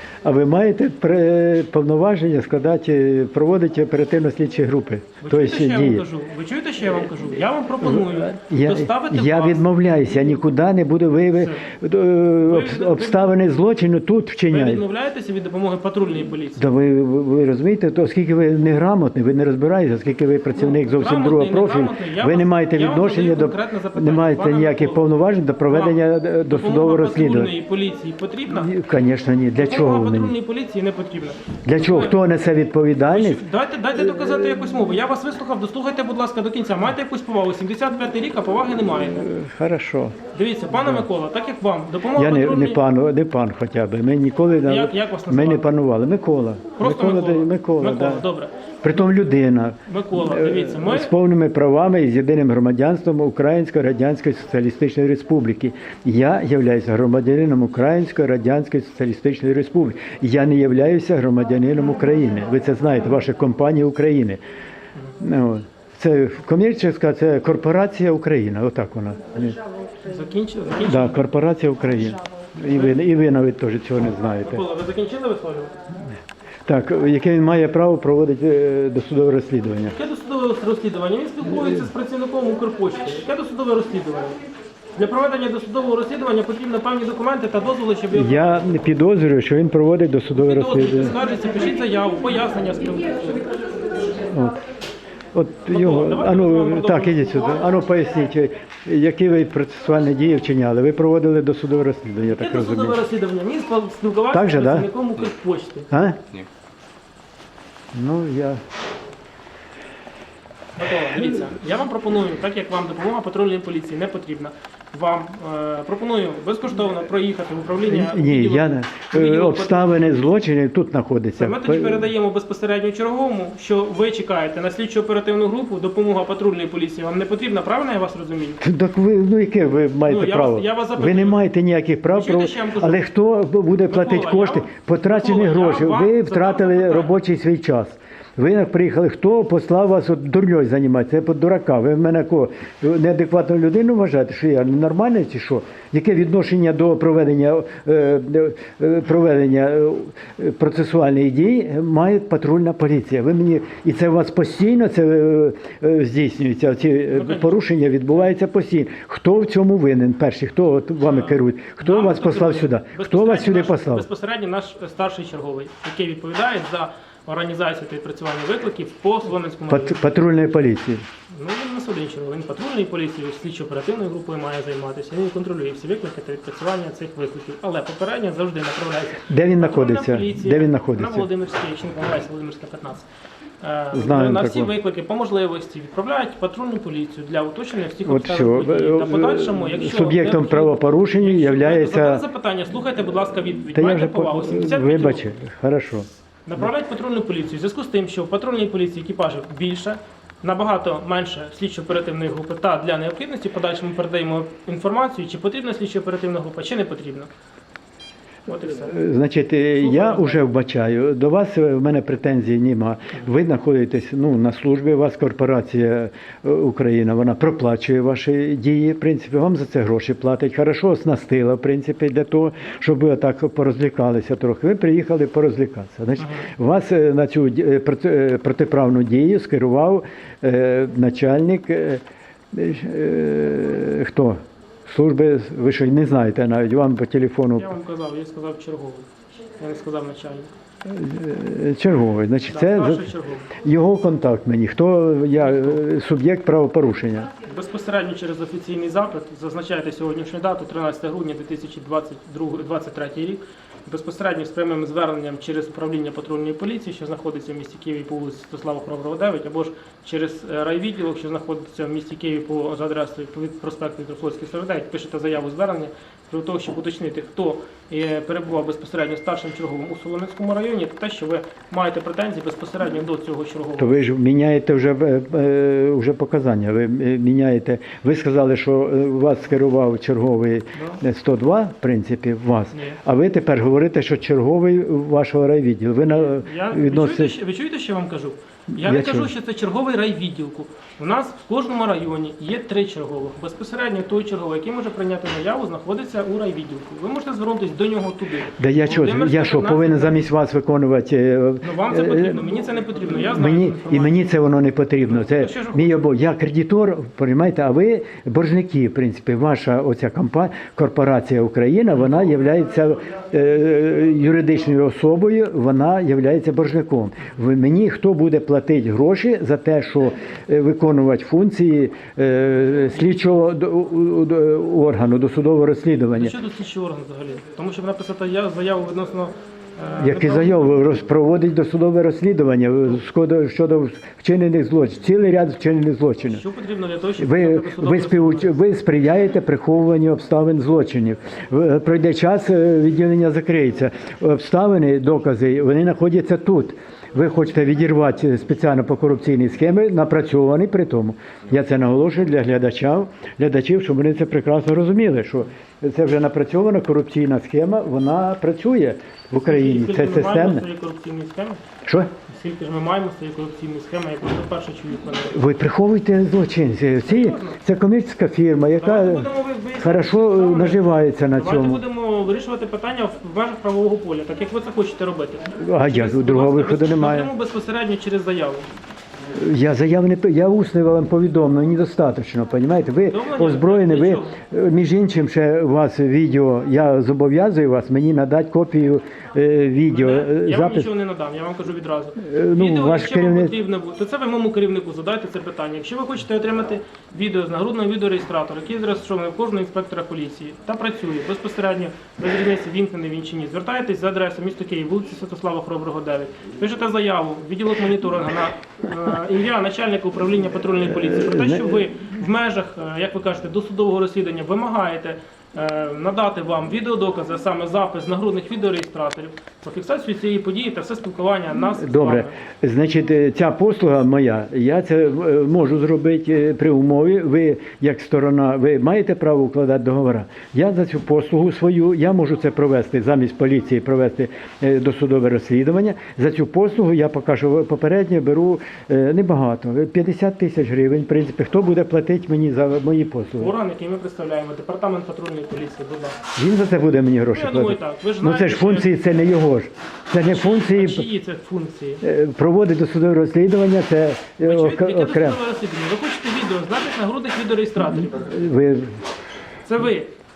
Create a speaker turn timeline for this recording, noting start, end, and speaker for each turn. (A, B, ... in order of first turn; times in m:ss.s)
0:00.2-0:06.1 A
0:05.2-0:09.7 B
0:07.8-0:14.8 A
0:11.4-0:11.6 B
0:12.4-0:13.3 B
0:14.5-0:16.7 B
0:16.6-0:27.5 A
0:20.6-0:25.1 B
0:25.7-0:28.7 B
0:28.5-0:30.4 A
0:29.6-0:32.2 B
0:31.6-0:34.6 A
0:33.1-0:39.3 B
0:39.0-0:40.2 A
0:40.3-0:42.8 B
0:40.7-0:41.1 A
0:42.2-0:48.3 A
0:44.6-0:45.7 B
0:46.8-0:48.5 B
0:48.8-1:04.4 A
0:49.9-0:51.1 B
1:05.2-1:09.6 A
1:10.0-1:11.2 B
1:10.8-1:14.6 A
1:14.4-1:15.7 B
1:16.7-1:20.0 A
1:19.9-1:24.4 B
1:21.5-1:21.8 A
1:25.0-1:28.8 B
1:28.1-1:31.2 A
1:30.3-1:33.5 B
1:34.2-1:34.6 A
1:35.3-1:43.0 A
1:35.7-1:37.6 B
1:42.3-1:45.9 B
1:44.3-1:44.9 A
1:45.9-1:46.2 A
1:47.9-1:48.6 A
1:50.8-2:00.0 B
1:57.8-2:02.1 A
2:01.4-2:08.6 B
2:08.6-2:44.1 A
2:10.0-2:11.4 B
2:12.1-2:13.0 B
2:13.9-2:17.2 B
2:37.1-2:37.7 B
2:41.0-2:50.1 B
2:49.7-2:51.1 A
2:51.3-3:03.1 B
2:59.2-3:01.3 A
3:03.6-3:15.3 B
3:03.9-3:04.7 A
3:08.0-3:12.2 A
3:13.7-3:16.1 A
3:16.5-3:27.3 B
3:28.5-3:29.0 B
3:28.7-3:57.8 A
3:29.8-3:30.4 B
3:46.2-3:46.5 B
3:57.6-4:00.5 B
4:00.8-4:07.3 A
4:02.5-4:03.5 B
4:05.4-4:05.8 B
4:07.5-4:34.0 B
4:33.8-4:47.4 A
4:40.8-4:41.0 B
4:42.7-4:43.0 B
4:46.2-5:00.2 B
4:48.7-4:49.3 A
4:58.6-5:02.5 A
5:01.6-5:04.2 B
5:03.3-5:26.4 A
5:05.0-5:06.1 B
5:26.2-5:30.8 B
5:30.0-5:36.4 A
5:36.3-5:38.6 B
5:37.2-6:00.6 A
5:59.4-6:01.6 B
6:01.8-6:02.1 A
6:02.3-6:05.4 B
6:05.3-6:11.8 A
6:07.0-6:07.6 B
6:08.8-6:10.8 B
6:11.4-6:18.7 B
6:15.6-6:17.3 A
6:19.4-6:30.9 A
6:23.1-6:24.4 B
6:29.9-7:02.4 B
6:32.2-6:33.6 A
6:50.8-6:52.0 A
7:01.7-7:23.6 A
7:23.4-7:26.2 B
7:26.4-7:31.1 A
7:27.3-7:29.1 B
7:30.2-7:32.0 B
7:32.0-7:35.4 A
7:34.4-7:38.2 B
7:37.8-7:39.0 A
7:39.6-7:40.1 B